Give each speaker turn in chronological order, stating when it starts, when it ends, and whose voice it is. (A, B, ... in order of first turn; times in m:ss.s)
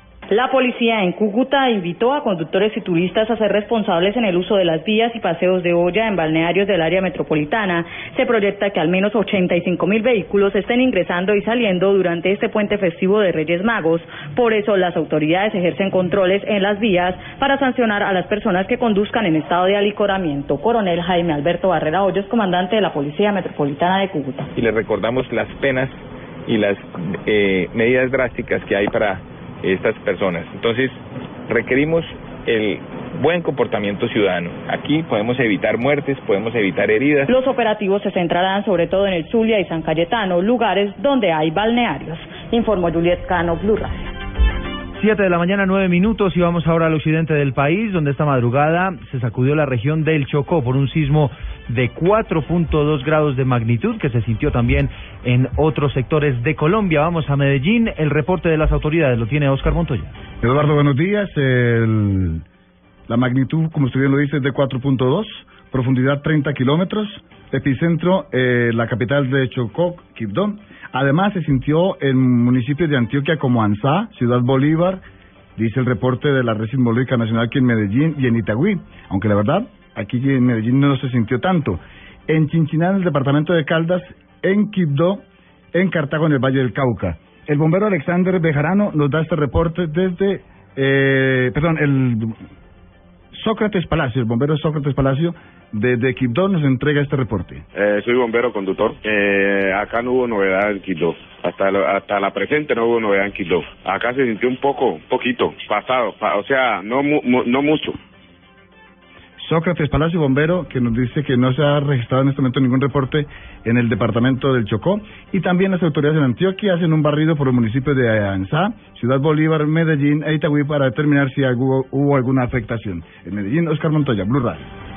0:00.3-0:24.5 A
0:24.5-0:37.2 B
0:37.3-0:43.8 A
0:45.0-1:00.1 C
1:00.4-1:02.4 D
1:03.1-1:15.0 D
1:15.6-1:32.3 D
1:33.3-1:37.6 D
1:37.8-1:47.9 E
1:49.4-2:04.6 D